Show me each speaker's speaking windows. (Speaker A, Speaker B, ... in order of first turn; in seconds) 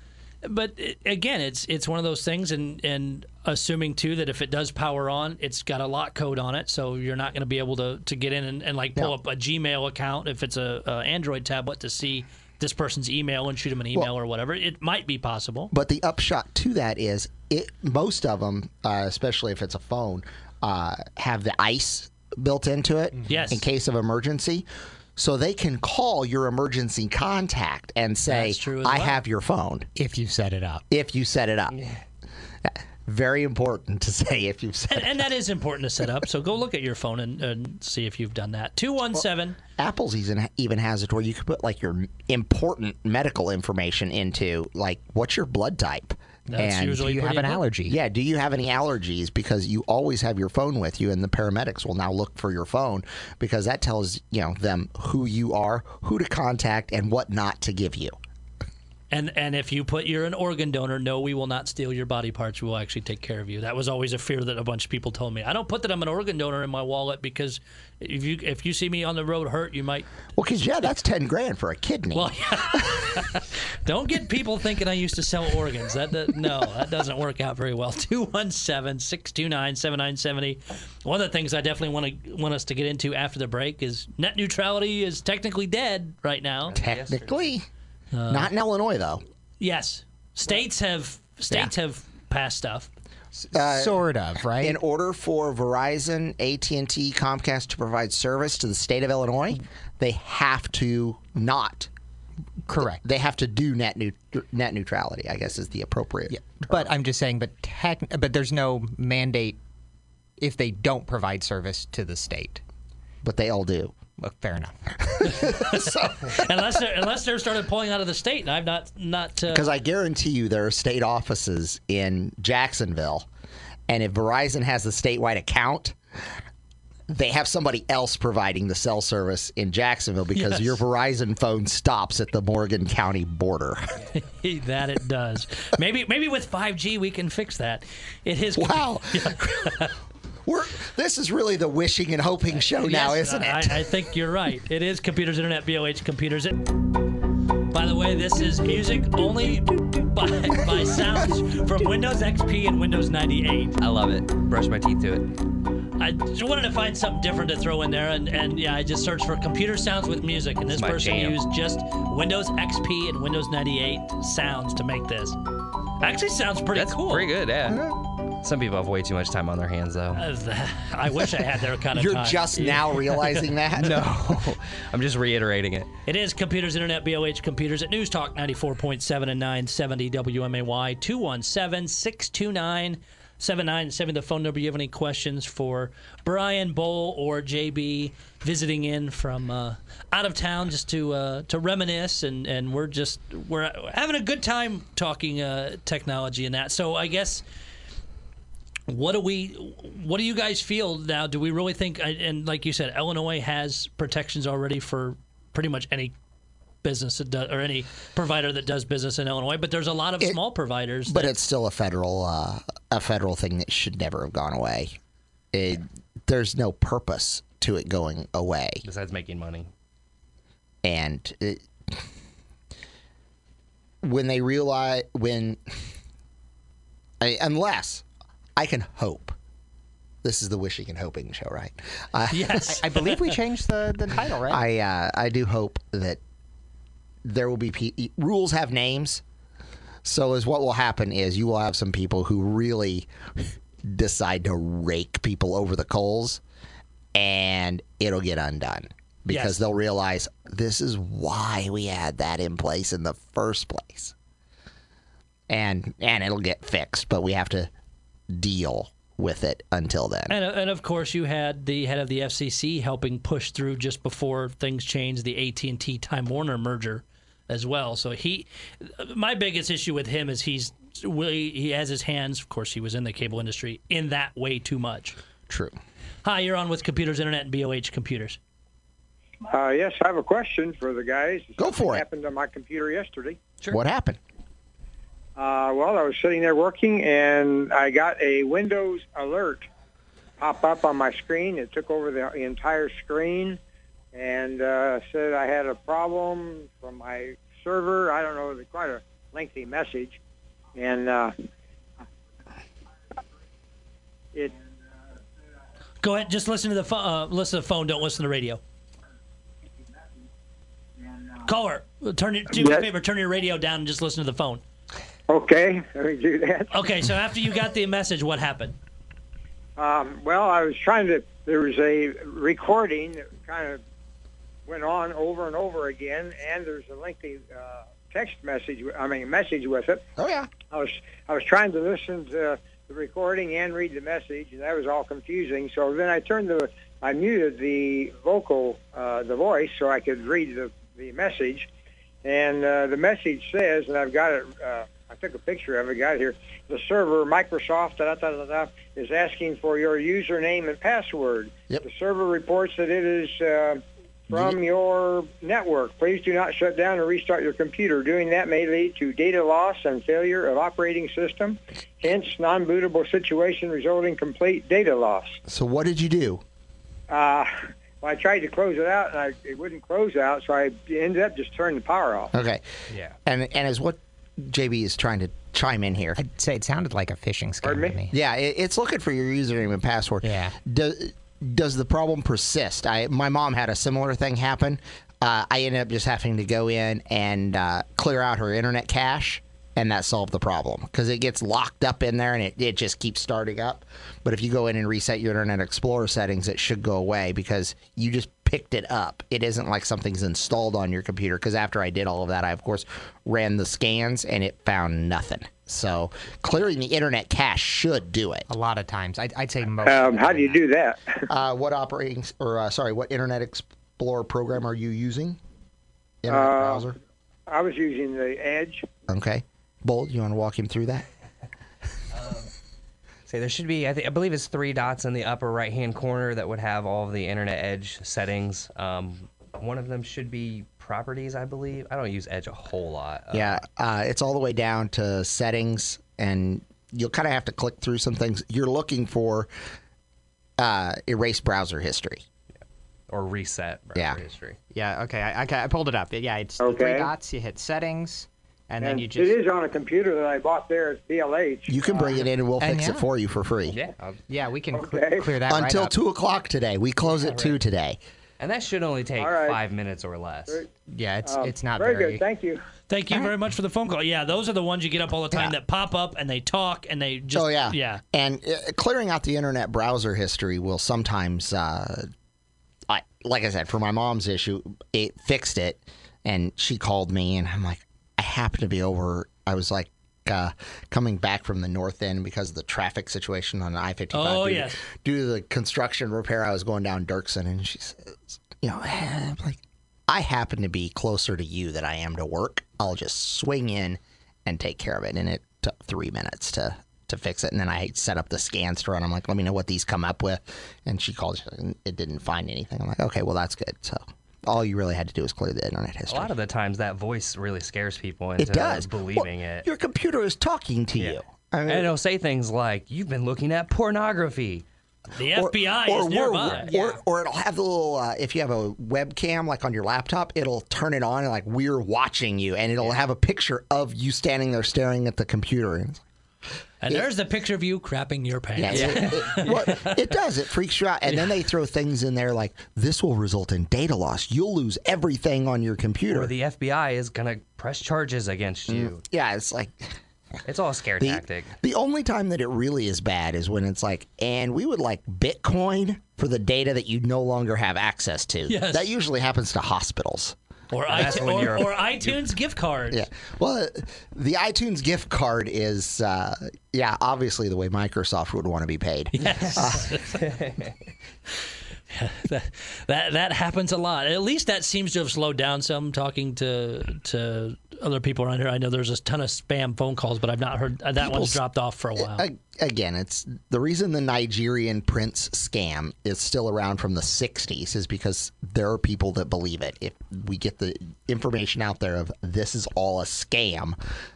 Speaker A: 0.4-15.7, 23.3-23.6, 28.3-29.2, 34.9-39.6, 46.5-47.6, 59.1-70.1, 72.1-86.8, 88.1-88.5, 89.6-92.9, 115.2-119.7, 130.4-130.8, 134.2-139.9, 142.8-146.7, 147.7-153.8, 156.0-165.4, 166.0-167.3, 170.2-172.6, 176.1-197.4, 198.9-206.1, 206.8-211.3, 232.3-233.3, 249.3-249.6, 260.3-275.2, 276.2-278.4, 306.0-308.6, 311.4-314.6, 316.7-318.8, 462.9-468.0, 484.1-484.8, 515.2-516.7, 526.8-530.0, 548.5-548.9, 550.7-553.1, 559.1-560.2, 561.9-572.2
Speaker B: 15.7-29.9, 30.9-31.8, 32.7-35.2, 39.8-47.1, 47.9-58.2, 70.4-73.2, 86.8-87.7, 88.3-89.2, 93.5-101.9, 102.8-106.9, 113.2-114.0, 115.1-116.3, 119.5-123.3, 123.9-126.0, 127.1-134.0, 138.6-139.9, 140.4-143.9, 167.7-168.0, 171.9-174.1, 211.1-215.0, 215.5-218.8, 220.8-222.0, 224.0-225.8, 227.2-228.1, 228.6-229.4, 230.2-232.8, 234.5-236.2, 237.2-239.2, 240.0-246.4, 247.1-254.1, 255.5-257.7, 258.3-260.4, 275.5-275.8, 281.6-282.0, 283.7-284.2, 330.2-330.5, 354.3-354.6, 365.5-366.4, 372.3-372.6, 373.2-376.2, 378.1-408.5, 411.3-415.4, 416.2-417.0, 419.1-421.1, 433.3-439.5, 440.6-442.2, 451.7-453.8, 455.5-458.0, 467.3-472.1, 472.9-506.4, 508.4-511.9, 515.3-526.0, 528.6-536.3, 538.7-540.0, 541.0-550.4, 551.0-551.3, 552.9-560.0, 571.0-571.4, 572.0-583.8
Speaker C: 23.2-23.5, 30.0-30.8, 46.9-48.0, 93.4-94.8, 102.7-103.0, 106.3-109.6, 110.4-112.6, 114.2-114.9, 232.7-234.6, 376.2-378.1, 380.2-380.6, 408.5-410.6, 444.7-449.4, 452.6-453.1, 454.3-455.9, 460.9-462.2
Speaker D: 31.7-32.0, 86.7-87.5, 153.8-155.3, 160.7-161.4, 166.7-170.2, 173.8-175.9, 218.8-219.7, 422.1-422.5, 423.3-433.6, 443.1-444.6, 453.7-454.2, 457.2-457.5, 458.4-460.6, 506.1-509.7, 511.0-514.6, 516.4-517.0, 528.7-529.5, 536.1-539.0, 540.5-541.5, 550.9-552.1, 560.2-560.7
Speaker E: 279.5-283.4, 285.4-289.7, 290.4-293.6, 294.1-300.2, 300.8-301.3, 315.3-316.7, 319.8-323.8, 324.7-330.0, 330.7-341.7, 342.2-365.4, 367.1-372.3, 377.6-378.0, 409.8-411.3, 416.3-416.9, 417.5-418.9, 446.6-447.1, 448.8-452.2, 454.7-455.3, 459.2-459.6, 461.2-462.6